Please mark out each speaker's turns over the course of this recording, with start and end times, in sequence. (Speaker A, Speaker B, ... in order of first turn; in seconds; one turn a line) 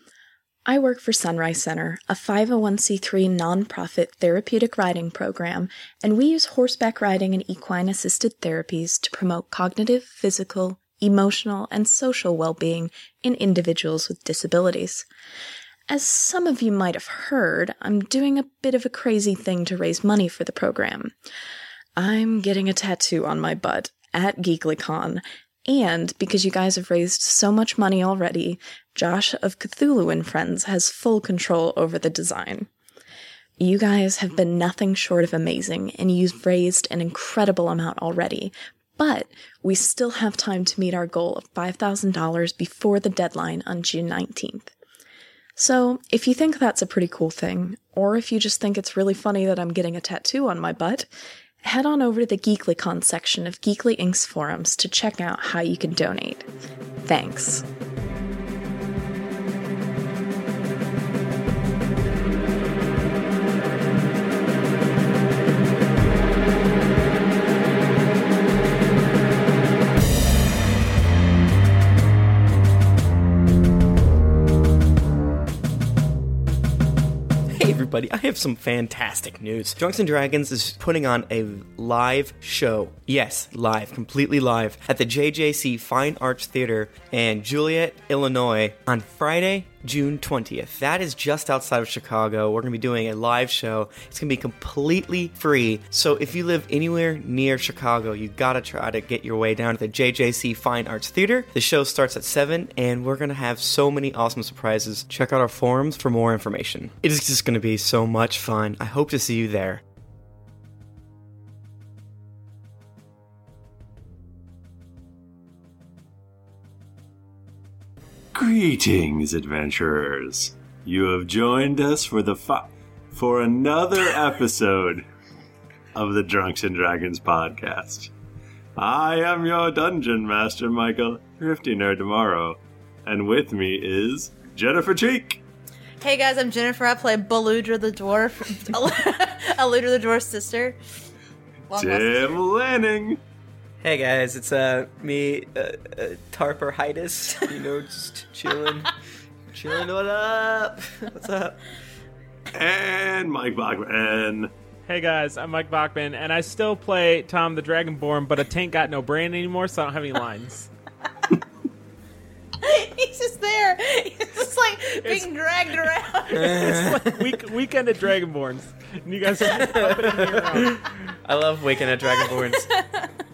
Speaker A: 0.7-15.1
Speaker A: 15.9-21.1
Speaker A: 22.0-32.7
Speaker A: 33.6-44.7
Speaker A: 45.6-51.1
Speaker A: 51.6-56.5
Speaker A: 57.0-57.6
Speaker B: 77.5-109.8
Speaker C: 118.3-125.1
Speaker C: 125.9-128.1
Speaker C: 128.8-135.4
Speaker D: 136.0-140.8
Speaker D: 141.7-142.3
Speaker C: 141.7-143.2
Speaker B: 143.8-148.9
Speaker B: 149.5-151.6
Speaker C: 152.5-154.5
Speaker E: 154.9-160.7
Speaker D: 162.6-166.5
Speaker E: 165.0-165.3
Speaker E: 166.3-170.9
Speaker B: 166.3-167.3
Speaker B: 169.4-172.7
Speaker D: 172.0-173.1